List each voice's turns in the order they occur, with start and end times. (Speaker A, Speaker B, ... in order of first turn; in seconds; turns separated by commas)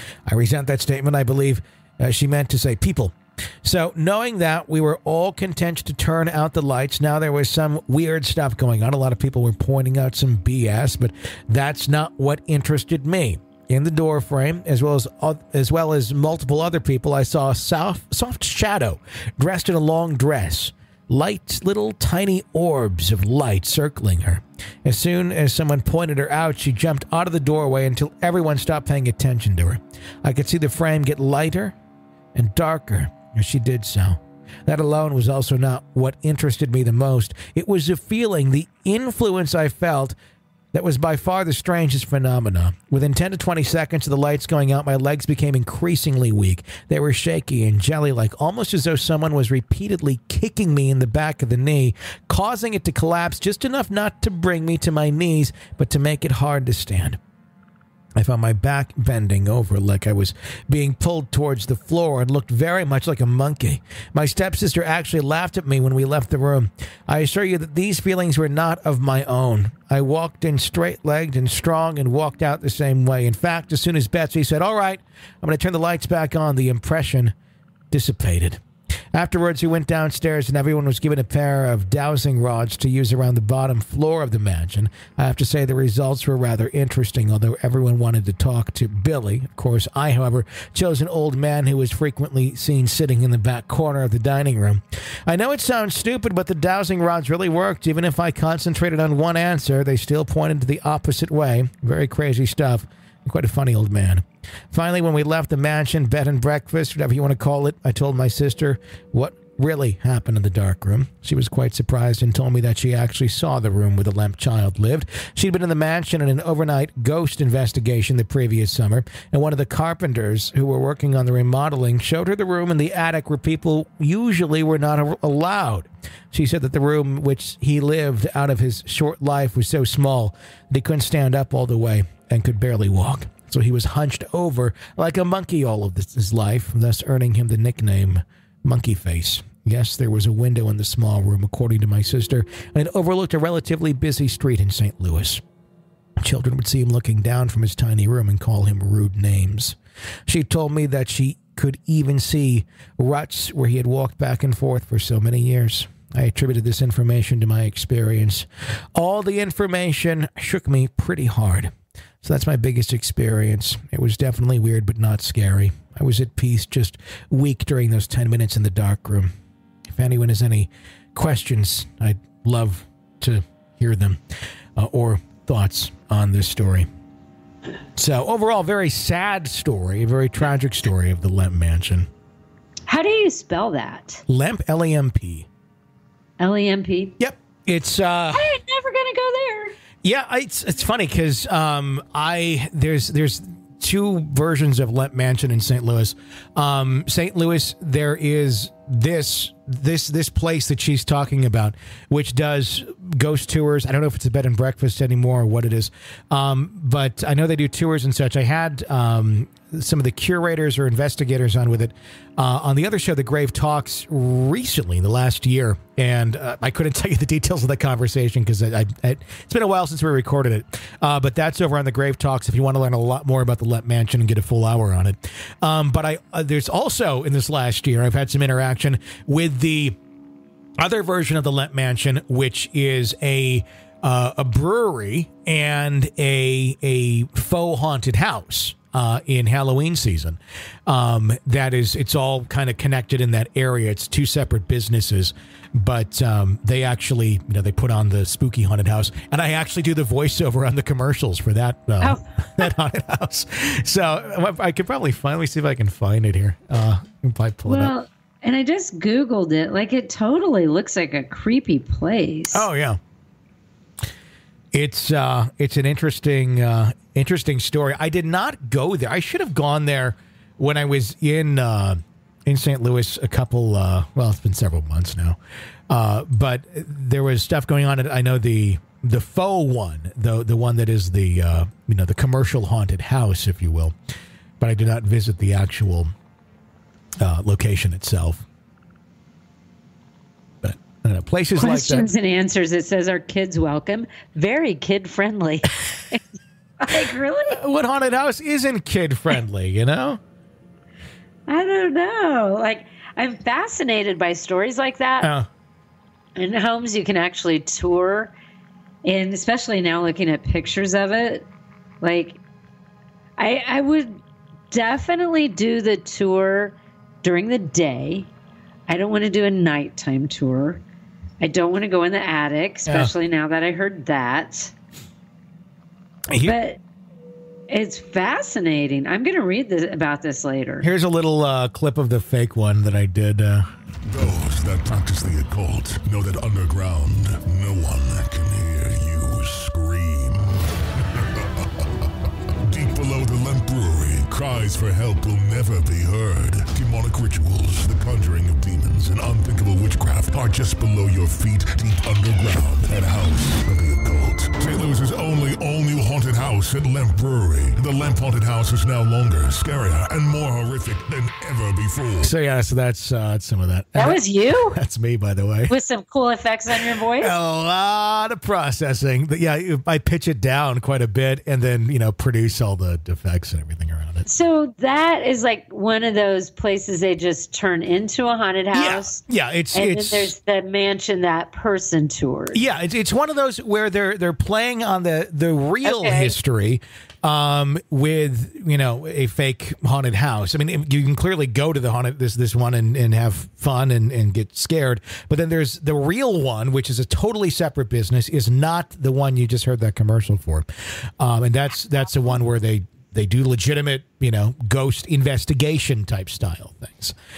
Speaker A: 0.2-31.7, Speaker A: 32.3-40.1, Speaker A: 40.7-57.2, Speaker A: 58.1-77.3, Speaker A: 77.9-78.6, Speaker A: 79.1-145.4, Speaker A: 146.2-169.3, Speaker A: 169.9-174.2, Speaker A: 174.8-176.9, Speaker A: 177.9-182.1, Speaker B: 182.9-184.2, Speaker A: 184.3-185.5, Speaker B: 186.4-187.2, Speaker A: 187.2-188.6, Speaker B: 188.3-189.8, Speaker A: 190.0-230.0, Speaker A: 230.8-257.9, Speaker B: 252.0-252.7, Speaker B: 257.7-262.6, Speaker A: 262.5-263.0, Speaker A: 264.7-275.4, Speaker A: 275.9-283.9, Speaker A: 284.6-286.1, Speaker A: 287.2-288.4, Speaker A: 290.6-292.1, Speaker B: 291.6-296.2, Speaker B: 296.8-297.6, Speaker A: 297.5-300.2, Speaker B: 301.5-305.3, Speaker A: 305.2-305.5, Speaker B: 306.4-308.3, Speaker B: 309.0-311.4, Speaker B: 312.0-312.4, Speaker B: 313.4-318.3, Speaker B: 318.9-320.8, Speaker B: 321.4-324.7, Speaker A: 326.3-326.6, Speaker B: 326.4-326.8, Speaker B: 327.7-330.9, Speaker A: 330.8-333.7, Speaker C: 334.1-342.1, Speaker C: 342.7-362.3, Speaker A: 362.2-364.2, Speaker B: 363.9-364.8, Speaker A: 364.7-365.7, Speaker B: 365.7-367.3, Speaker A: 367.2-374.2, Speaker B: 374.2-379.2, Speaker A: 378.7-380.3, Speaker B: 379.7-382.6, Speaker A: 382.5-400.7, Speaker B: 385.8-386.3, Speaker A: 401.2-407.1